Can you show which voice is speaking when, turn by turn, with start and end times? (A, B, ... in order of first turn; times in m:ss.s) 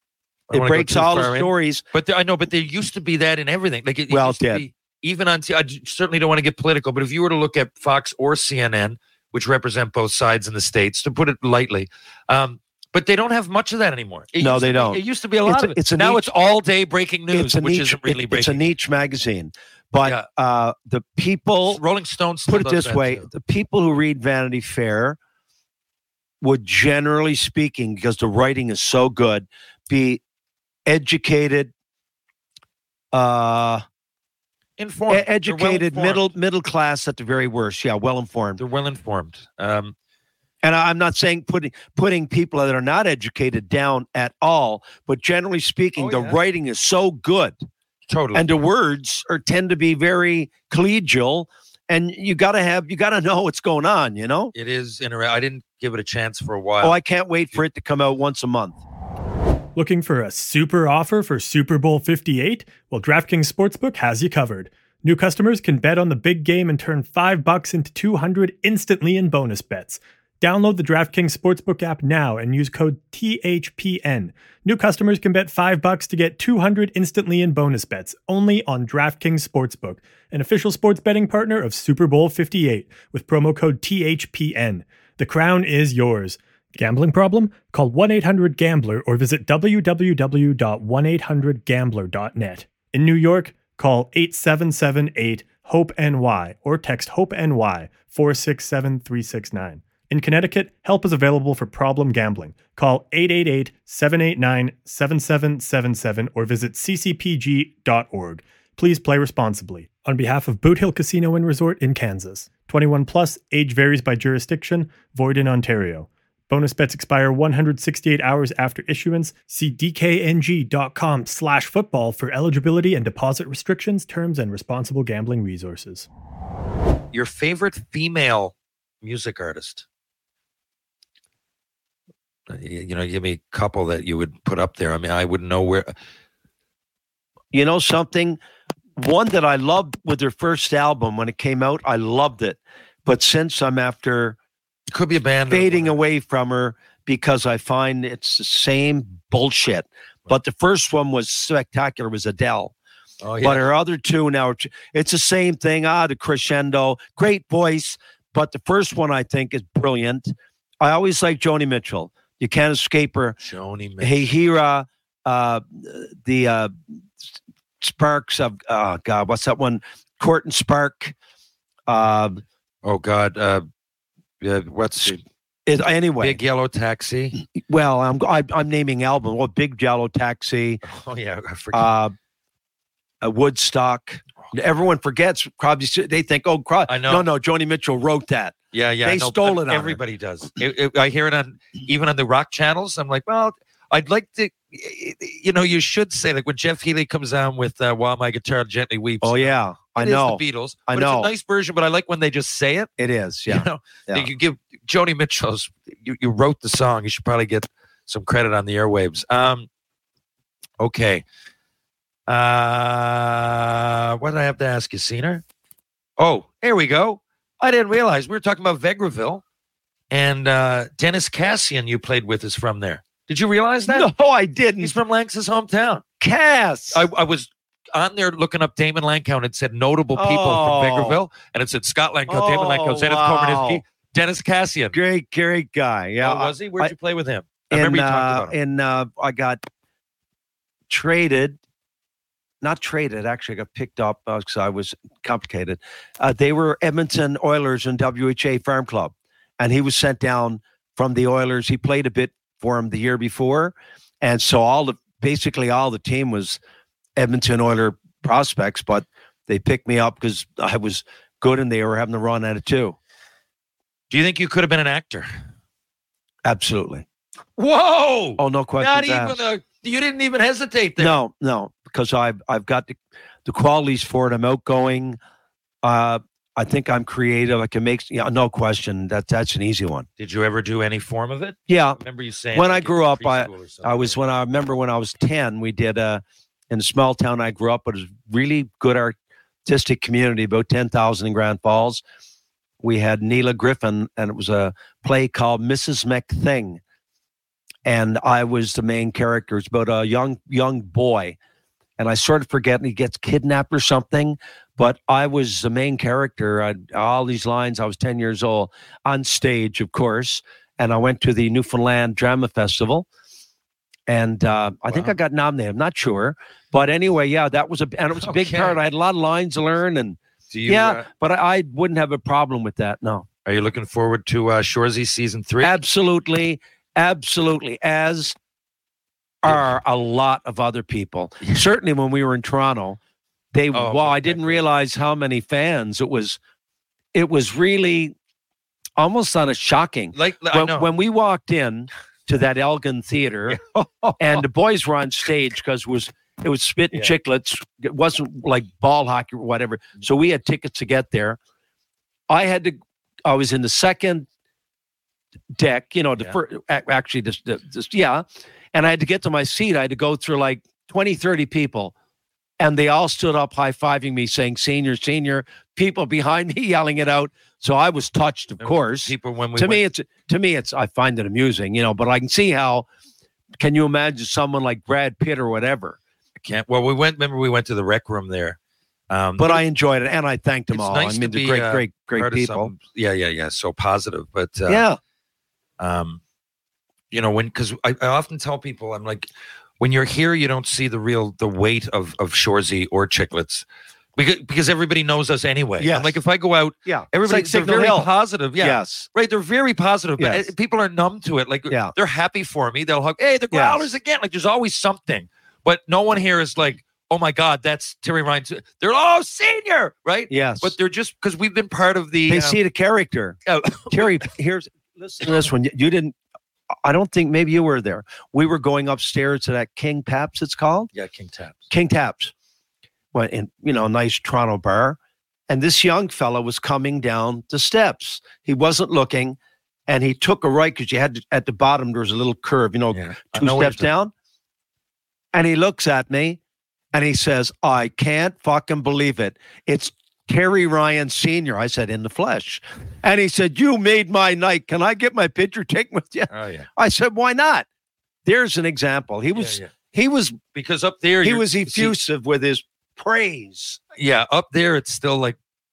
0:00.5-0:18.6 A
0:00.5-0:01.8 B
0:04.1-0:04.6 B
0:14.4-0:16.3 B
0:17.3-0:21.8 B
0:21.7-0:23.3 A
0:22.5-0:25.2 B
0:26.4-0:30.2 B
0:30.8-0:31.7 B
0:33.1-0:33.8 B
0:34.8-0:36.3 A
0:35.1-0:38.6 B
0:38.6-0:39.9 A
0:40.6-0:47.6 B
0:46.0-0:46.4 A
0:48.1-0:48.5 A
0:48.3-0:54.5 B
0:54.5-0:57.0 A
0:56.8-0:58.8 B
0:59.8-2:06.1 C
2:07.1-2:09.8 A
2:12.5-2:15.9 A
2:17.5-2:18.4 B
2:19.0-2:24.4 B
2:24.9-2:26.0 A
2:25.5-2:32.7 B
2:33.2-2:33.7 A
2:33.4-2:43.4 B
2:43.4-2:44.3 A
2:44.0-2:46.7 B
2:47.8-2:51.1 B
2:51.9-2:52.4 B
2:52.8-2:53.6 A
2:54.4-2:55.2 A
2:55.6-2:56.4 B
2:56.2-2:57.4 A
2:57.5-3:00.8 B
3:00.8-3:01.9 A
3:01.7-3:02.1 B
3:03.2-3:10.0 B
3:06.9-3:07.2 A
3:08.7-3:22.9 A
3:19.2-3:21.3 B
3:23.0-3:24.3 B
3:23.5-3:29.7 A
3:30.8-3:31.2 A
3:32.3-3:35.4 A
3:36.2-3:39.4 A
3:40.1-3:44.1 A
3:43.8-3:44.9 B
3:44.8-3:46.0 A
3:46.2-3:47.0 B
3:46.9-3:55.0 A
3:50.1-3:51.2 B
3:52.3-3:53.8 B
3:54.9-3:56.9 B
3:56.2-3:58.5 A
3:57.7-3:59.6 B
4:00.9-4:01.6 B
4:02.6-4:16.6 B
4:17.2-4:23.0 B
4:24.1-4:25.3 A
4:26.4-4:27.0 B
4:27.6-4:31.2 A
4:28.4-4:29.4 B
4:31.0-4:35.2 B
4:35.8-4:40.1 B
4:40.2-4:44.2 A
4:41.7-4:42.0 B
4:42.5-4:52.0 B
4:52.8-4:56.8 B
4:57.8-5:01.4 B
5:02.0-5:13.1 B
5:14.1-5:23.3 B
5:18.2-5:18.8 A
5:20.5-5:21.1 A
5:23.4-5:25.8 A
5:25.6-5:28.4 B
5:29.4-5:33.0 B
5:33.5-5:36.4 B
5:33.7-5:34.6 A
5:37.1-5:38.1 B
5:39.0-5:51.4 B
5:40.1-5:40.9 A
5:43.5-5:44.4 A
5:52.3-5:54.3 B
5:55.5-6:01.9 B
6:02.6-6:12.9 B
6:08.6-6:09.8 A
6:13.6-6:16.0 B
6:16.4-6:18.6 A
6:19.1-6:19.6 A
6:19.4-6:22.7 B
6:20.7-6:24.8 A
6:24.7-6:25.0 B
6:25.8-6:26.2 A
6:27.1-6:29.3 A
6:29.8-6:33.6 A
6:34.2-6:52.6 A
6:35.8-6:36.2 B
6:36.8-6:39.1 B
6:40.2-6:40.5 B
6:43.5-6:43.9 B
6:50.3-6:50.7 B
6:52.3-6:56.2 B
6:53.4-6:54.3 A
6:56.8-7:00.9 B
7:00.9-7:01.7 A
7:01.7-7:02.3 B
7:03.1-7:05.0 B
7:05.5-7:14.1 B
7:12.9-7:13.9 A
7:15.3-7:16.4 B
7:16.9-7:27.6 B
7:26.3-7:26.7 A
7:28.2-7:30.4 B
7:29.3-7:29.7 A
7:30.5-7:31.9 A
7:31.2-7:33.8 B
7:34.0-7:35.4 A